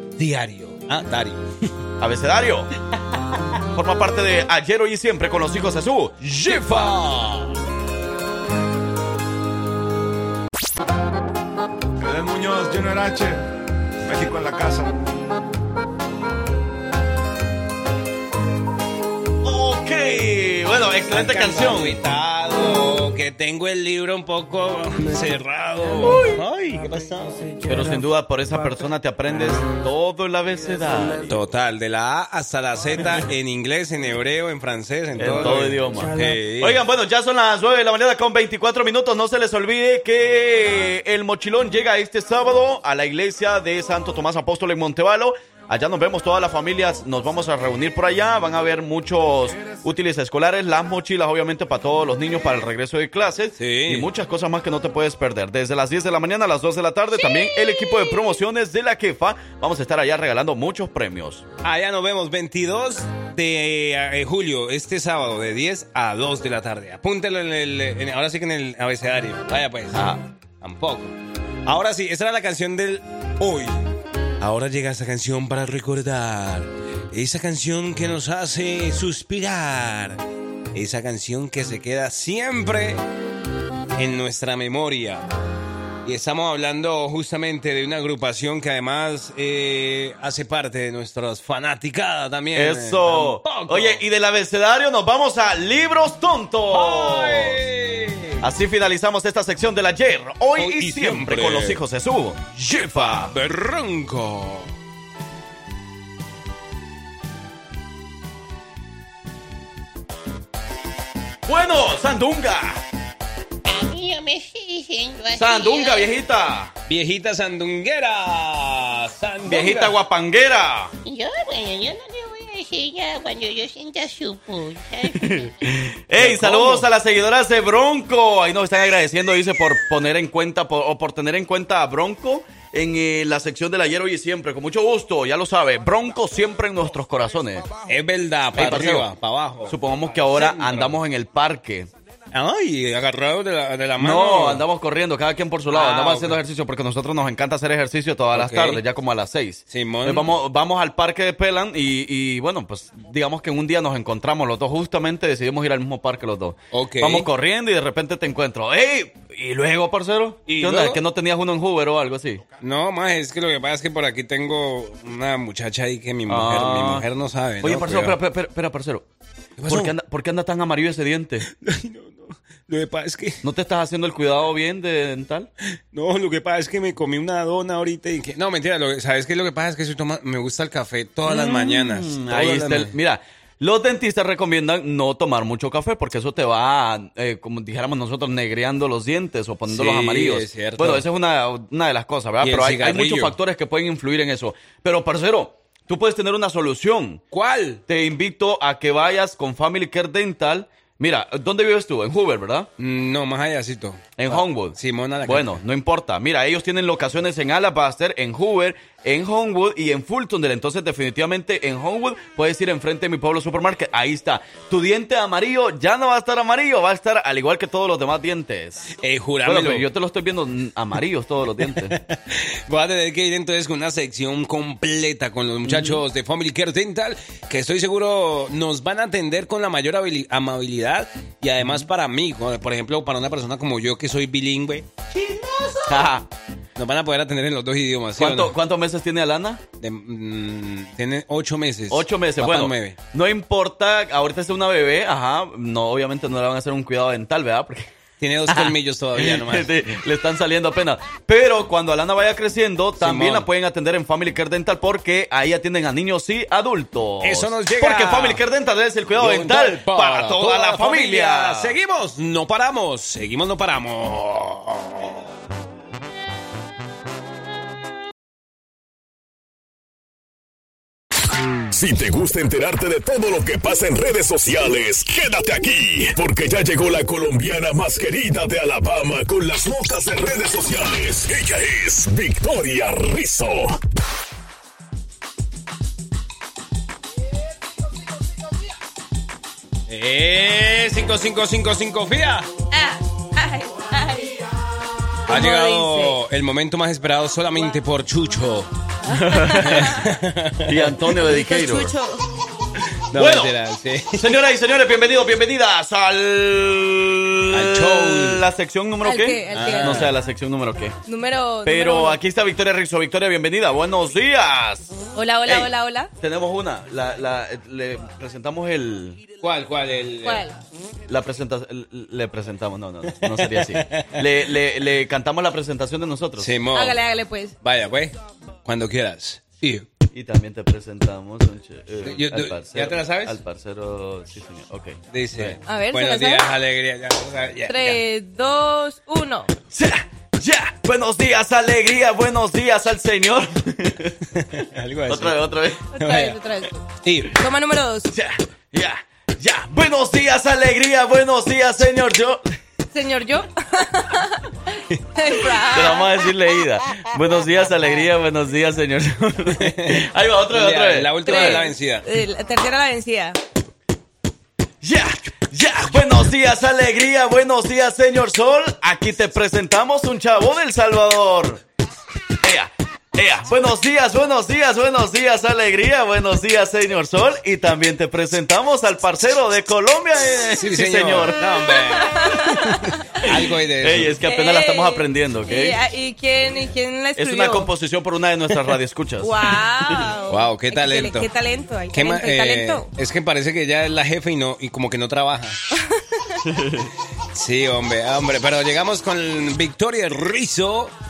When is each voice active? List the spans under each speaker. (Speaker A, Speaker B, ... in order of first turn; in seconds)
Speaker A: 0.2-1.5, 6.5-7.5, 21.1-27.9, 31.3-36.8, 53.6-54.1, 61.6-71.1, 71.7-73.8, 74.4-80.2, 80.7-83.0, 84.0-85.3, 86.0-94.0, 96.7-98.5, 100.6-101.8, 103.0-104.7, 116.9-120.0, 126.2-126.9, 137.8-141.0, 142.3-144.6, 145.7-146.4, 148.3-148.8, 149.7-150.3, 156.7-157.3, 160.5-161.0, 162.6-168.2, 169.6-169.9, 171.5-173.4, 175.9-182.9, 189.7-191.0, 192.4-193.3, 197.3-197.8, 202.8-205.6, 219.0-219.9, 221.9-235.9, 236.8-238.5, 239.8-243.0, 248.2-249.7, 253.0-253.5, 257.2-258.4, 259.1-265.1, 289.9-292.5, 295.3-298.7, 299.6-300.9, 303.1-304.3, 307.5-308.4, 309.5-310.1, 319.4-320.4, 323.1-324.3, 326.4-327.0, 327.6-329.9, 332.0-333.4, 335.1-338.0, 344.3-346.4, 347.0-347.4, 359.5-362.1, 380.6-384.2, 390.3-391.3, 391.9-395.6, 397.3-400.9
Speaker B: 2.0-2.7, 3.7-7.0, 19.4-22.0, 26.0-26.4, 27.6-31.4, 35.2-61.4, 69.9-70.2, 92.5-97.6, 98.4-103.3, 111.5-112.8, 115.3-116.7, 119.5-120.9, 125.1-137.7, 138.5-139.1, 139.7-141.9, 144.0-162.4, 166.3-167.1, 167.6-169.1, 169.7-171.4, 173.4-175.5, 181.2-197.2, 197.9-202.7, 204.2-221.9, 225.6-226.0, 231.6-231.9, 235.8-236.3, 238.2-239.6, 241.9-247.9, 248.5-261.8, 299.1-300.0, 300.6-301.9, 303.1-303.5, 304.1-311.0, 311.6-314.9, 315.4-319.2, 321.1-326.6, 330.1-335.6, 339.7-344.2, 345.1-345.8, 348.1-352.4, 355.7-361.6, 364.8-371.6, 372.4-381.7, 383.2-385.8, 387.1-389.4, 396.4-396.9
Speaker C: 12.0-13.4, 14.1-15.0
Speaker D: 113.7-116.1, 121.0-125.5
Speaker E: 271.7-283.8
Speaker F: 292.7-294.4, 295.3-296.2, 299.0-299.9, 301.3-302.2, 309.0-310.0, 311.1-312.2, 315.1-316.1, 320.2-320.6, 326.7-327.6, 335.6-336.5, 337.7-339.5, 345.9-348.1, 352.9-354.4, 355.1-356.1, 361.2-363.4, 381.7-383.2, 384.2-387.7, 389.2-392.9